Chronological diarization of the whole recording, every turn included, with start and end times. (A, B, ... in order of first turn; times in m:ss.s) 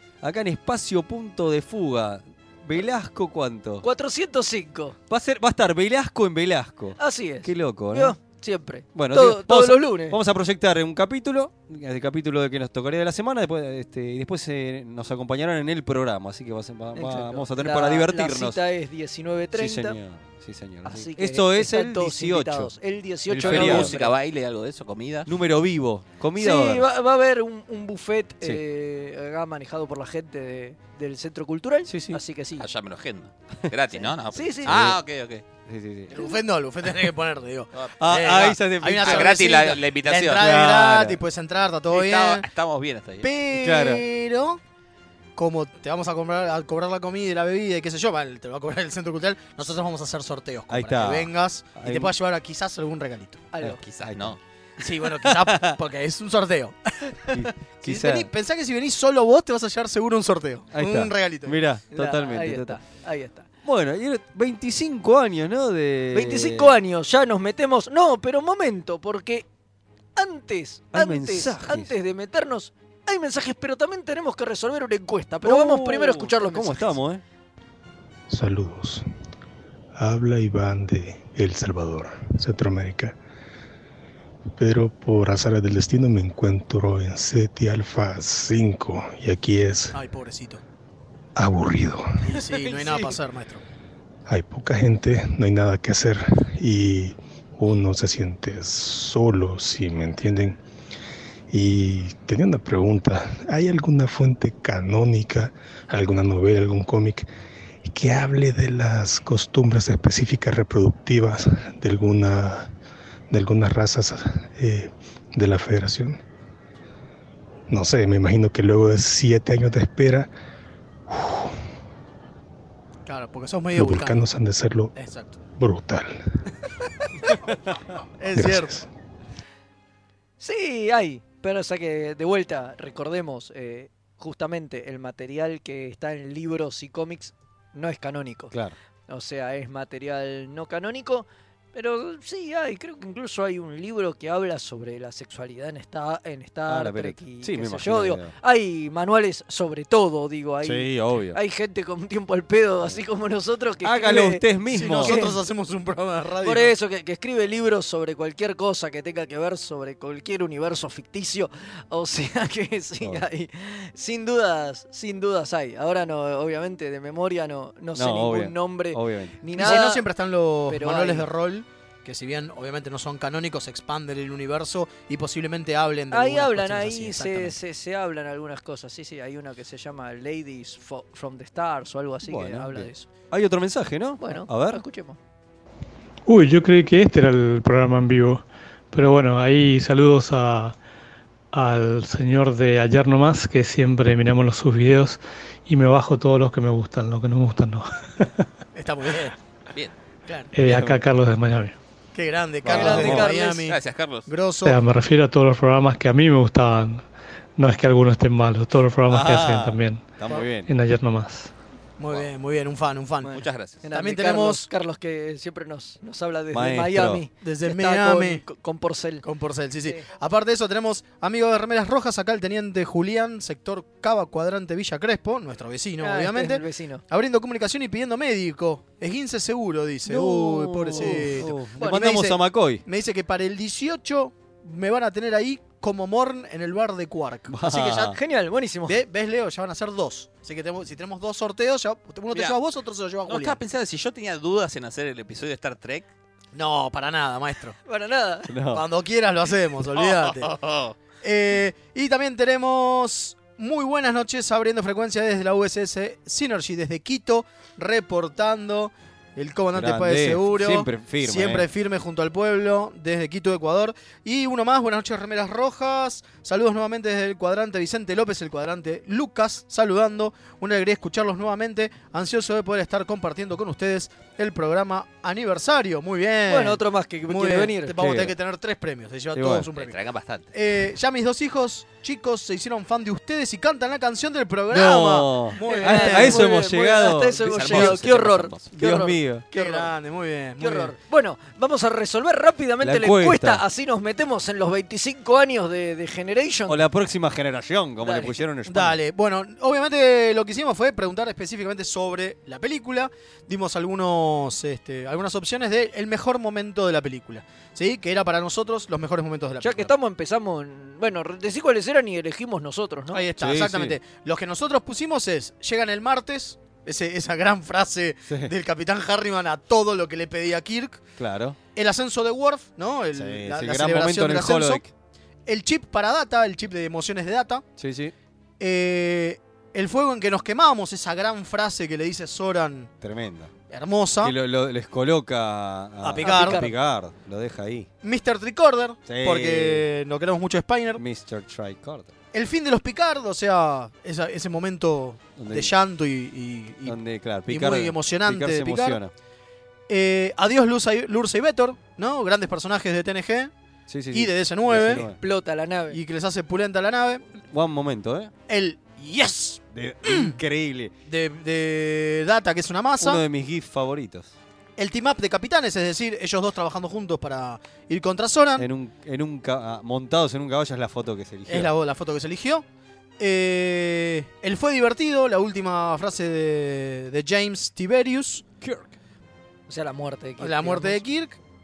0:00.2-0:03.8 A
0:03.8-0:05.0 B
0:05.1-0:08.1 A
0:07.0-0:10.2 B
0:08.9-0:18.6 A
0:16.9-0:20.0 B
0:19.5-0:22.7 A
0:20.8-0:24.1 B
0:23.3-0:23.9 A
0:23.4-0:25.3 C
0:25.2-0:26.9 A
0:26.4-0:32.6 B
0:31.9-0:32.2 A
0:32.6-0:35.4 C
0:34.3-0:34.9 B
0:34.6-0:35.0 A
0:35.6-0:36.3 A
0:36.1-0:42.4 D
0:37.7-0:38.0 C
0:38.0-0:39.4 A
0:39.0-0:40.6 C
0:40.3-0:41.2 A
0:41.9-0:43.3 C
0:43.2-0:44.6 D
0:43.5-0:44.0 A
0:45.4-0:53.5 D
0:50.7-0:52.1 A
0:53.5-0:53.8 B
0:53.6-0:54.4 A
0:53.9-0:54.4 C
0:54.8-1:01.6 D
0:55.1-0:55.7 A
0:57.3-0:58.3 A
1:00.7-1:02.8 A
1:01.9-1:03.5 B
1:03.6-1:06.7 A
1:06.1-1:09.4 B
1:10.2-1:17.0 B
1:10.9-1:11.9 A
1:15.4-1:17.2 A
1:18.3-1:19.0 E
1:20.0-1:23.2 E
1:24.6-1:30.0 E
1:29.9-1:30.6 D
1:31.4-1:32.2 E
1:32.2-1:33.6 D
1:32.3-1:33.2 B
1:34.3-1:40.6 E
1:41.5-1:47.3 E
1:47.8-1:52.7 E
1:53.3-1:56.2 E
1:57.7-2:00.3 E
2:01.1-2:01.5 E
2:03.0-2:04.2 D
2:03.7-2:04.9 E
2:04.9-2:05.4 D
2:05.6-2:06.2 E
2:08.2-2:08.8 D
2:08.3-2:08.9 E
2:10.4-2:18.5 B
2:19.1-2:34.4 B
2:26.7-2:28.3 A
2:30.6-2:31.4 A
2:33.8-2:35.2 A
2:34.7-2:36.7 D
2:35.0-2:35.3 B
2:36.4-2:50.0 B
2:47.9-2:49.8 A
2:49.5-2:57.6 D
2:50.7-2:51.3 B
2:56.1-3:03.1 B
3:02.2-3:04.8 A
3:04.2-3:05.2 B
3:06.2-3:10.8 F
3:11.5-3:18.3 F
3:18.7-3:19.3 D
3:20.5-3:21.7 F
3:20.6-3:21.0 A
3:22.1-3:24.8 D
3:22.6-3:23.3 A
3:22.7-3:23.6 B
3:22.9-3:24.3 C
3:24.6-3:27.0 F
3:27.6-3:30.1 F
3:29.1-3:30.7 A
3:30.6-3:31.5 F
3:32.0-3:34.7 D
3:33.2-3:33.8 C
3:33.8-3:39.2 B
3:36.5-3:37.2 A
3:37.4-3:38.4 D
3:39.2-3:57.9 D
3:46.0-3:47.0 B
3:50.1-3:52.1 B
3:50.1-3:52.8 A
3:57.5-3:58.2 A
3:57.6-3:59.0 B
3:58.9-4:03.6 D
4:02.3-4:02.6 C
4:03.2-4:06.1 C
4:06.5-4:07.8 D
4:07.8-4:08.5 B
4:08.5-4:08.8 A
4:08.7-4:10.5 D
4:09.9-4:10.9 C
4:11.2-4:40.0 D
4:19.7-4:21.7 A
4:36.5-4:38.0 B
4:37.9-4:38.4 A
4:39.3-4:39.7 A
4:39.8-4:40.5 C
4:40.5-4:46.5 D
4:44.7-4:48.1 A
4:45.6-4:49.9 B
4:47.5-4:48.6 C
4:48.7-4:49.4 A
4:48.8-4:50.9 D
4:50.6-4:56.8 B
4:52.8-4:53.6 A
4:56.7-4:59.0 A
4:58.0-4:58.4 B
4:58.7-5:09.9 D
5:09.6-5:13.2 B
5:13.1-5:21.0 D
5:13.4-5:14.0 A
5:18.3-5:18.5 A
5:21.2-5:21.6 A
5:21.7-5:24.8 D
5:23.1-5:24.9 A
5:25.4-5:27.6 D
5:27.8-5:28.1 A
5:28.6-5:32.9 D
5:33.0-5:33.5 A
5:33.7-5:34.3 D
5:34.2-5:37.9 A
5:36.0-5:36.6 D
5:36.2-5:36.7 B
5:38.0-5:41.0 D
5:39.0-5:39.9 A
5:41.0-5:42.1 A
5:42.3-5:49.0 D
5:45.4-5:45.7 A
5:46.8-5:49.1 A
5:49.9-5:53.5 D
5:53.9-5:55.2 A
5:54.1-5:55.0 D
5:54.8-5:56.0 B
5:55.9-5:57.2 D
5:57.5-5:58.3 A
5:58.5-6:00.3 D
5:59.7-6:00.9 A
6:01.0-6:03.2 D
6:03.0-6:04.3 A
6:04.8-6:08.7 D
6:08.6-6:11.7 A
6:11.5-6:12.6 D
6:13.2-6:18.4 D
6:18.6-6:18.9 A
6:19.7-6:21.0 B
6:20.4-6:21.4 D